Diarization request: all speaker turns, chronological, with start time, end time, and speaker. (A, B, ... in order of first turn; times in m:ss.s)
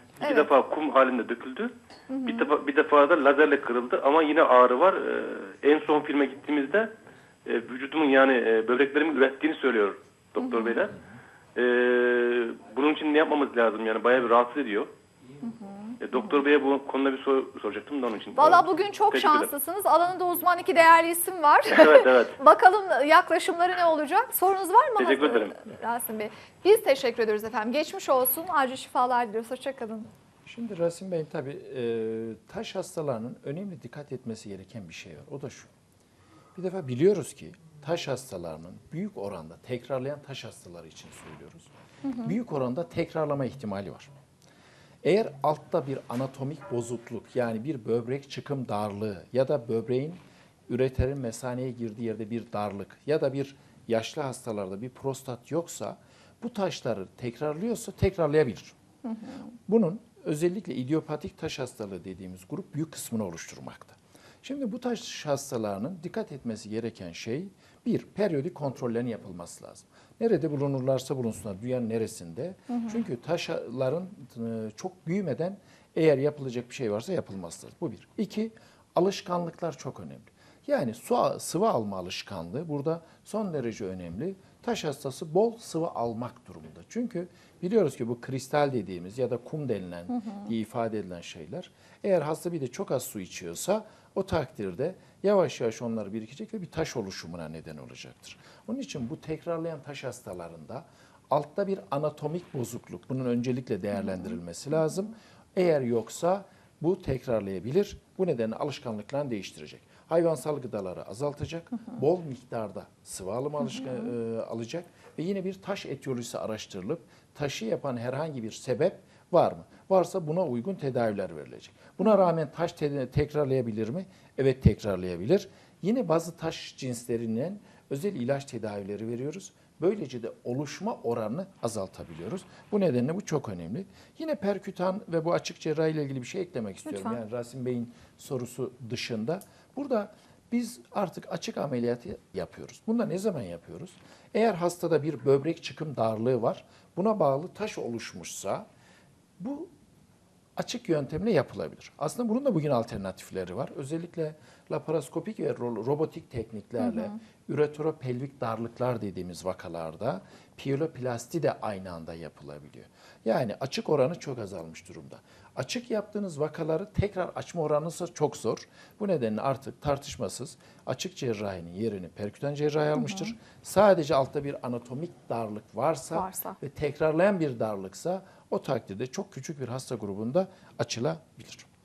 0:00.2-0:01.7 A
0:00.2-0:00.5 B
0:02.1-0:02.5 B
0:02.2-0:06.9 A
0:07.4-0:11.0 A
0:10.4-0:10.8 B
0:11.5-0:14.9 A
0:15.4-0:16.3 B
0:16.0-0:19.5 A
0:18.4-0:30.1 B
0:21.7-0:22.4 A
0:25.0-0:25.6 A
0:30.4-0:35.7 C
0:36.5-0:41.7 C
0:42.0-0:42.4 B
0:42.2-0:44.1 C
0:45.0-0:58.8 C
0:59.0-0:59.5 B
0:59.6-2:28.6 C
1:12.7-1:13.0 B
1:53.6-1:54.0 B
2:02.0-2:02.3 B
2:16.9-2:17.2 B
2:29.4-2:29.7 C
2:30.6-3:01.7 C
2:36.8-2:37.1 B
2:53.0-2:53.3 B
2:56.1-2:56.6 B